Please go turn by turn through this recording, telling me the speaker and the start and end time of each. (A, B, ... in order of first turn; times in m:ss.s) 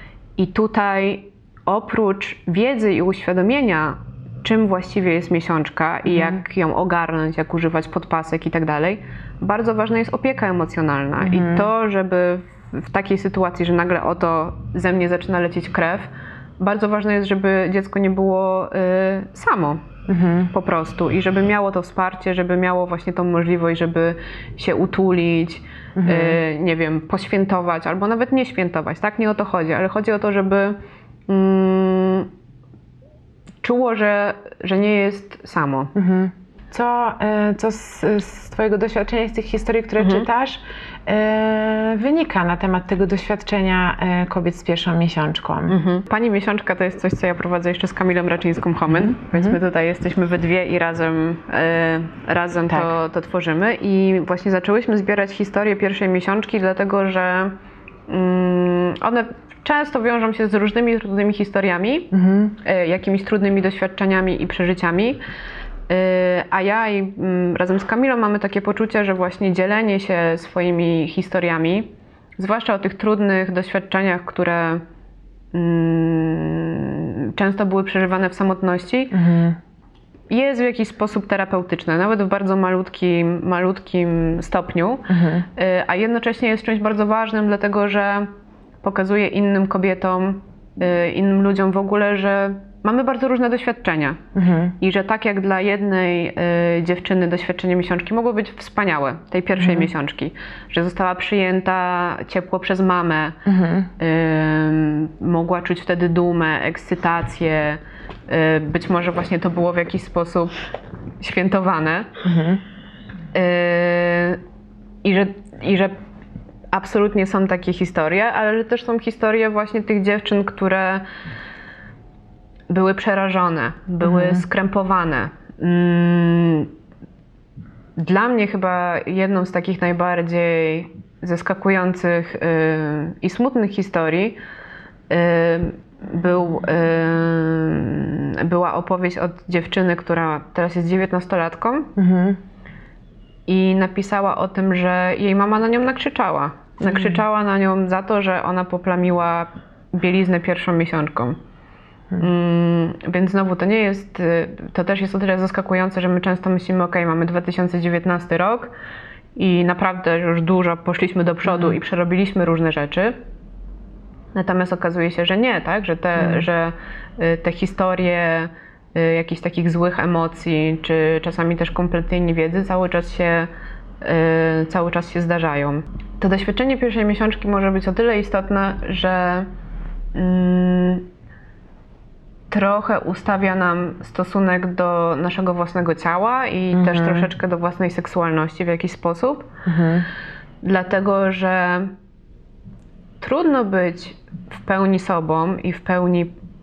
0:00.4-0:19.8 A
0:06.0-0:06.4 B
0:11.2-0:11.7 B
0:20.1-0:20.5 B
0:20.5-0:32.3 A
0:26.0-0:26.4 B
0:33.6-0:35.9 A
0:36.0-0:45.8 B
0:40.0-0:40.3 A
0:45.7-0:57.5 A
0:48.9-0:49.6 B
0:58.1-1:02.1 A
1:02.1-1:02.6 B
1:02.6-1:05.2 A
1:05.9-1:14.8 A
1:15.5-1:19.2 A
1:19.1-1:19.6 B
1:20.3-1:28.3 A
1:25.1-1:25.5 B
1:28.8-1:34.2 A
1:34.4-1:34.8 B
1:34.8-1:43.4 A
1:39.6-1:39.9 B
1:43.4-1:43.9 B
1:44.0-1:50.5 A
1:51.2-1:52.1 A
1:52.2-1:52.6 B
1:53.3-1:54.4 A
1:55.0-1:55.9 A
1:56.7-2:01.0 A
2:02.7-2:06.7 A
2:04.0-2:04.4 B
2:08.0-2:14.4 A
2:15.1-2:21.9 A
2:22.0-2:22.4 B
2:23.5-2:31.4 A
2:26.8-2:27.2 B
2:32.2-2:38.7 A
2:39.4-2:43.2 A
2:41.4-2:41.8 B
2:44.3-2:53.5 A
2:46.2-2:46.4 B
2:54.0-2:59.5 A
3:00.1-3:01.1 A
3:02.5-3:09.5 A
3:06.7-3:07.3 B
3:09.6-3:10.1 B
3:10.6-3:11.9 A
3:13.2-3:16.3 A